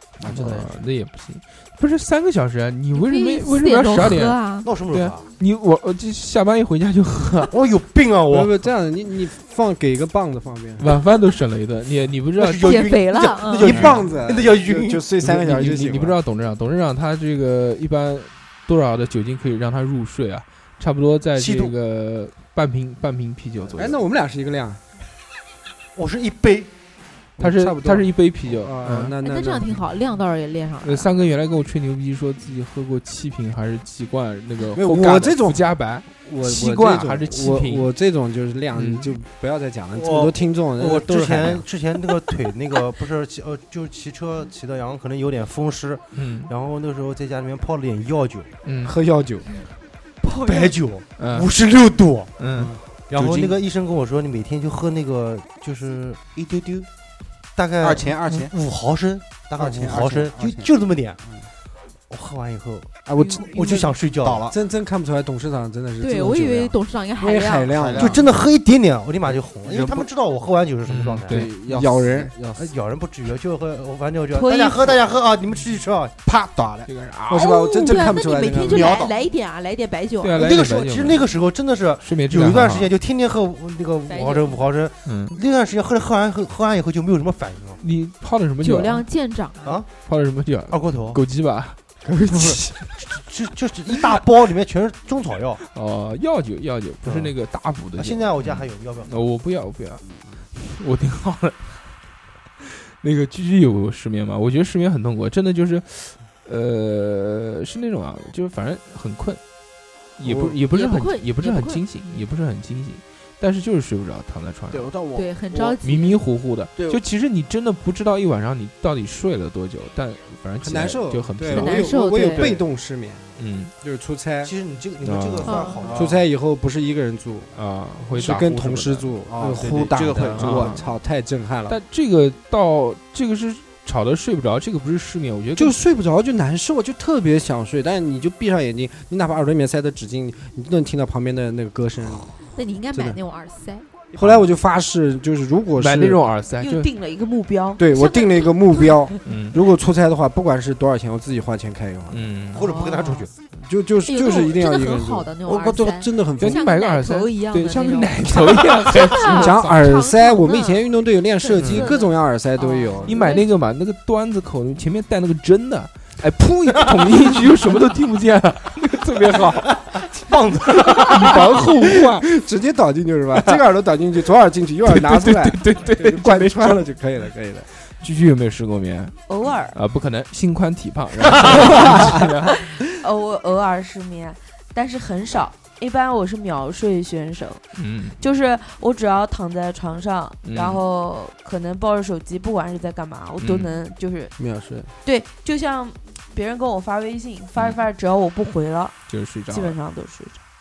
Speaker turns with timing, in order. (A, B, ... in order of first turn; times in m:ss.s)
0:00.2-0:00.7 A
0:00.2-0:07.5 B
0:02.9-0:04.7 C
0:04.6-0:05.3 D
0:07.5-0:08.6 D
0:08.3-0:10.8 E
0:10.8-0:12.8 B
0:12.4-0:15.1 D
0:12.6-0:13.7 C
0:13.6-0:16.2 E
0:13.7-0:14.0 B
0:15.2-0:24.0 B
0:21.4-0:21.7 D
0:23.7-0:24.8 E
0:26.0-0:26.7 D
0:27.4-0:29.8 E
0:27.4-0:29.2 B
0:29.2-0:31.1 C
0:30.8-0:37.9 B
0:34.8-0:41.6 E
0:38.8-0:39.2 B
0:40.0-0:48.5 D
0:46.2-0:46.5 B
0:48.6-0:49.0 B
0:48.8-0:49.5 E
0:50.2-0:50.8 C
0:50.4-0:52.5 D
0:51.2-0:51.5 B
0:52.4-0:53.5 B
0:53.1-0:56.2 D
0:56.4-0:56.9 A
0:57.6-1:01.2 D
0:57.8-0:58.5 A
0:59.6-1:00.7 A
1:02.1-1:04.4 D
1:03.1-1:04.0 E
1:04.2-1:04.6 A
1:04.5-1:08.2 E
1:06.0-1:07.8 C
1:07.7-1:08.4 A
1:08.0-1:11.4 D
1:09.2-1:10.1 A
1:10.9-1:11.5 B
1:11.3-1:12.7 A
1:11.6-1:12.3 E
1:12.6-1:16.2 D
1:14.3-1:15.0 F
1:16.2-1:16.9 A
1:16.9-1:17.4 B
1:17.3-1:18.9 E
1:17.3-1:20.4 C
1:18.7-1:19.2 A
1:20.2-1:21.3 B
1:20.4-1:27.8 D
1:22.0-1:22.9 B
1:24.1-1:24.7 C
1:25.1-1:25.4 B
1:27.8-1:29.0 B
1:28.6-1:29.8 C
1:29.6-1:29.9 D
1:30.0-1:31.8 B
1:30.7-1:31.2 D
1:32.0-1:32.8 E
1:32.3-1:35.6 D
1:35.7-1:42.0 B
1:37.0-1:37.4 D
1:37.9-1:39.3 D
1:43.0-1:49.4 B
1:50.2-1:54.9 B
1:50.2-1:50.6 E
1:50.7-1:51.9 C
1:54.7-1:55.8 A
1:55.2-1:56.2 C
1:55.8-2:02.6 B
1:56.8-1:57.0 A
2:00.6-2:04.5 E
2:01.5-2:02.6 C
2:03.4-2:03.7 B
2:04.4-2:06.2 D
2:05.0-2:05.5 B
2:05.4-2:05.8 C
2:05.5-2:05.9 F
2:05.8-2:06.2 A
2:05.9-2:07.5 E
2:07.6-2:09.1 B
2:08.1-2:11.8 E
2:09.3-2:10.8 A
2:09.6-2:10.3 D
2:10.4-2:10.9 B
2:11.7-2:15.8 B
2:15.6-2:22.3 E
2:22.5-2:23.9 C
2:22.9-2:23.2 E
2:24.1-2:26.2 E
2:24.2-2:24.5 B
2:25.8-2:26.9 B
2:26.6-2:29.1 F
2:27.8-2:32.2 E
2:29.2-2:29.6 B
2:32.1-2:32.6 B
2:32.5-2:33.3 D
2:32.6-2:33.3 C
2:33.6-2:36.6 E
2:34.0-2:43.5 C
2:36.4-2:39.7 B
2:39.3-2:43.4 E
2:41.6-2:41.8 B
2:43.1-2:49.7 B
2:49.4-2:51.5 D
2:50.8-2:57.7 E
2:51.0-2:52.0 B
2:54.9-2:56.8 B
2:57.8-3:02.6 B
2:59.3-2:59.8 F
3:01.5-3:01.9 F
3:02.7-3:07.6 F
3:07.8-3:08.2 B
3:08.2-3:14.4 F
3:10.4-3:10.8 B
3:13.4-3:13.8 B
3:14.4-3:14.9 E
3:15.0-3:19.0 F
3:19.1-3:19.8 B
3:19.5-3:20.4 F